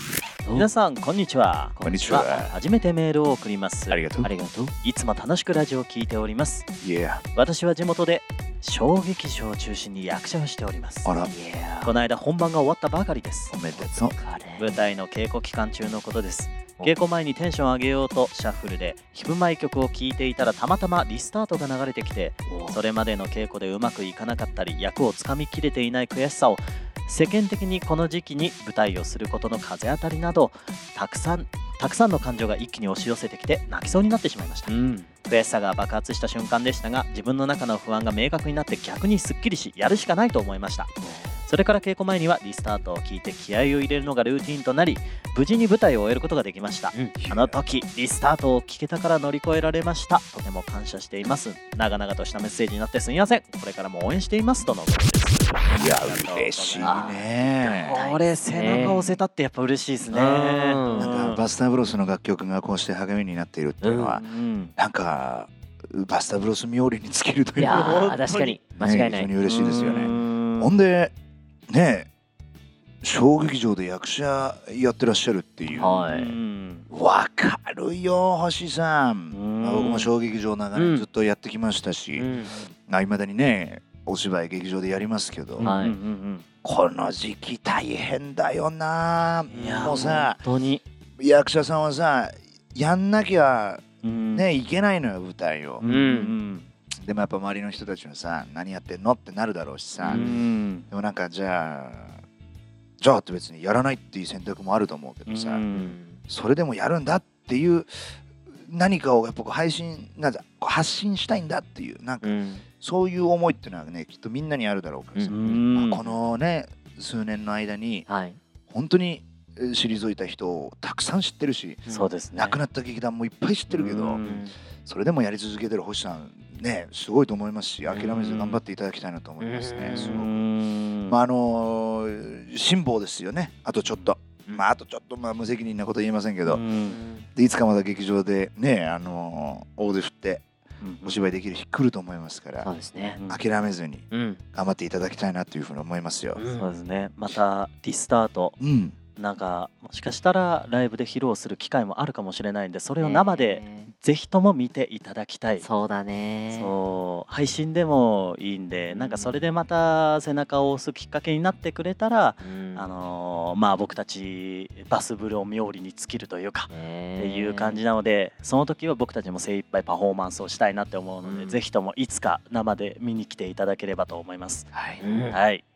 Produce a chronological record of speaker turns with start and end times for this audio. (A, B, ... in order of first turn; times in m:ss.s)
0:00.4-0:00.7 A
0:00.6-0:04.0 B
0:01.8-0:02.4 A
0:01.8-0:02.5 C
0:03.9-0:04.3 C
0:04.2-0:04.7 A
0:04.8-0:06.7 B
0:06.8-0:07.2 C
0:07.3-0:11.1 B
0:11.0-0:11.3 C
0:11.2-0:11.9 A
0:11.8-0:13.6 B
0:13.5-0:14.2 C
0:13.8-0:14.9 A
0:14.6-1:01.4 B
0:22.5-0:22.8 A
0:34.7-0:35.1 A
0:41.0-0:41.4 A
0:47.2-0:47.6 C
0:55.7-0:58.0 C
0:56.8-0:57.2 A
0:57.9-0:59.2 A
1:00.1-1:01.2 A
1:01.0-1:08.2 C
1:03.8-1:04.2 A
1:04.1-1:04.7 B
1:07.6-1:09.3 A
1:07.6-1:08.6 B
1:08.8-1:11.2 C
1:09.4-1:10.8 B
1:11.7-1:12.1 C
1:13.0-1:16.0 C
1:15.6-1:16.9 B
1:15.8-1:16.4 A
1:16.9-1:22.3 C
1:19.3-1:20.1 B
1:20.8-1:21.1 A
1:22.2-1:22.6 A
1:22.9-1:25.7 C
1:25.6-1:26.4 B
1:25.6-1:26.0 A
1:26.6-1:30.4 C
1:29.5-1:30.2 A
1:29.5-1:30.8 B
1:31.2-1:35.8 C
1:34.0-1:34.5 B
1:35.8-1:36.7 B
1:35.8-1:36.3 A
1:37.0-1:42.2 C
1:40.0-1:40.8 B
1:40.1-1:40.4 A
1:43.0-1:45.7 C
1:45.3-1:46.0 B
1:45.7-1:46.2 A
1:46.3-1:58.1 C
1:52.2-1:52.6 A
1:55.2-1:55.7 A
1:55.3-1:56.2 B
1:58.1-1:58.4 A
1:58.7-2:04.2 C
2:01.9-2:02.6 B
2:03.7-2:04.4 B
2:04.2-2:04.6 A
2:04.8-2:10.4 C
2:07.9-2:08.2 A
2:07.9-2:08.6 B
2:09.4-2:10.2 A
2:09.9-2:11.2 B
2:11.1-2:16.6 C
2:13.8-2:14.1 B
2:16.4-2:17.0 B
2:16.9-2:17.3 A
2:17.4-2:20.4 C
2:20.8-2:21.3 B
2:21.0-2:22.7 C
2:22.6-2:23.2 A
2:23.1-2:23.4 B
2:23.3-2:26.4 C
2:24.1-2:24.4 A
2:26.4-2:26.8 A
2:26.6-2:28.6 B
2:28.6-2:29.0 C
2:29.2-2:35.7 B
2:33.0-2:33.9 A
2:35.6-2:36.7 A
2:36.5-2:54.8 B
2:38.9-2:39.5 A
2:42.4-2:43.0 A
2:46.7-2:47.8 A
2:51.2-2:51.6 A
2:54.7-2:55.0 C
2:55.0-2:55.4 A
2:55.3-2:55.6 B